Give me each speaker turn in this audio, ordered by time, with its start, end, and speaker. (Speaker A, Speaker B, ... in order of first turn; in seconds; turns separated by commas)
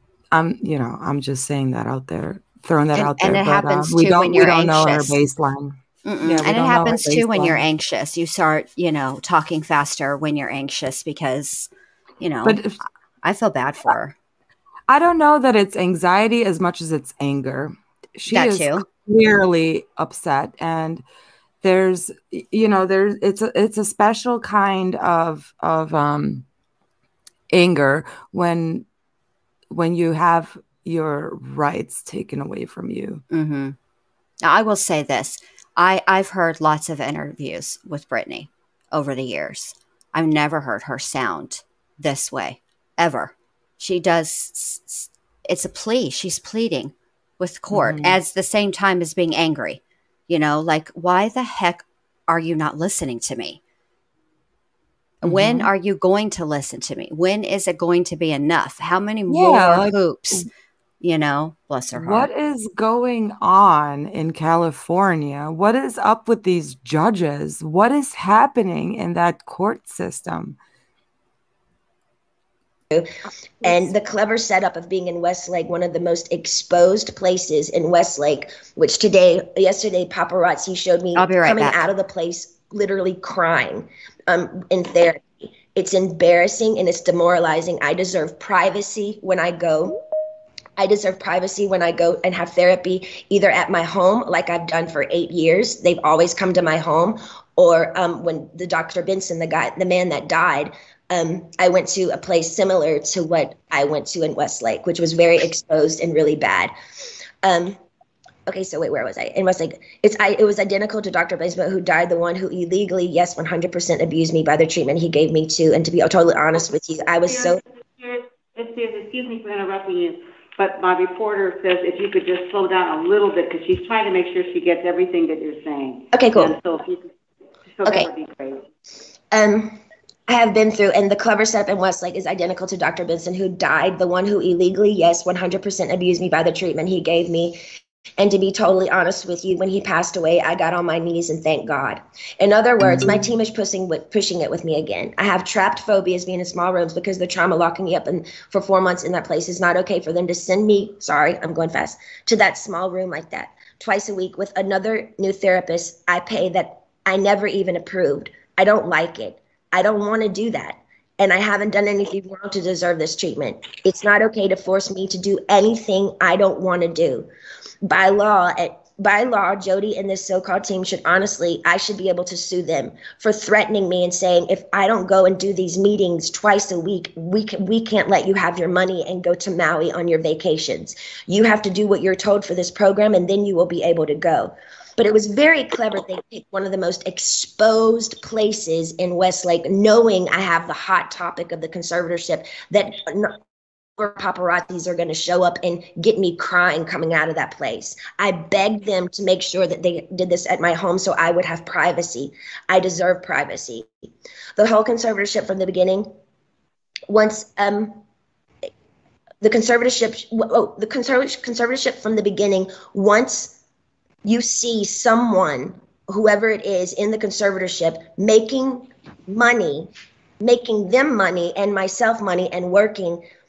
Speaker A: 0.3-7.6, Speaker B: 2.9-5.2, Speaker B: 6.0-11.7, Speaker B: 12.2-12.6, Speaker A: 12.4-12.8, Speaker B: 13.2-14.1, Speaker A: 14.9-21.0, Speaker B: 18.3-18.9, Speaker A: 21.6-26.4, Speaker A: 27.5-28.9, Speaker A: 29.7-33.2, Speaker B: 33.3-33.8, Speaker B: 34.4-53.6, Speaker A: 47.7-48.2, Speaker B: 55.2-60.5, Speaker A: 55.2-55.7, Speaker A: 59.3-60.5, Speaker B: 61.0-62.3, Speaker A: 61.9-70.6, Speaker C: 73.6-90.0, Speaker B: 81.2-81.8, Speaker C: 90.8-106.7, Speaker C: 107.4-107.8, Speaker C: 108.5-117.6, Speaker D: 117.3-127.1, Speaker C: 126.1-126.5, Speaker D: 127.7-128.7, Speaker C: 129.3-137.6, Speaker C: 138.2-167.3, Speaker A: 142.8-143.3, Speaker C: 167.8-193.4, Speaker C: 194.0-203.9, Speaker C: 204.6-206.1, Speaker C: 207.1-208.0, Speaker C: 209.4-213.6, Speaker C: 214.2-219.9, Speaker C: 220.4-223.2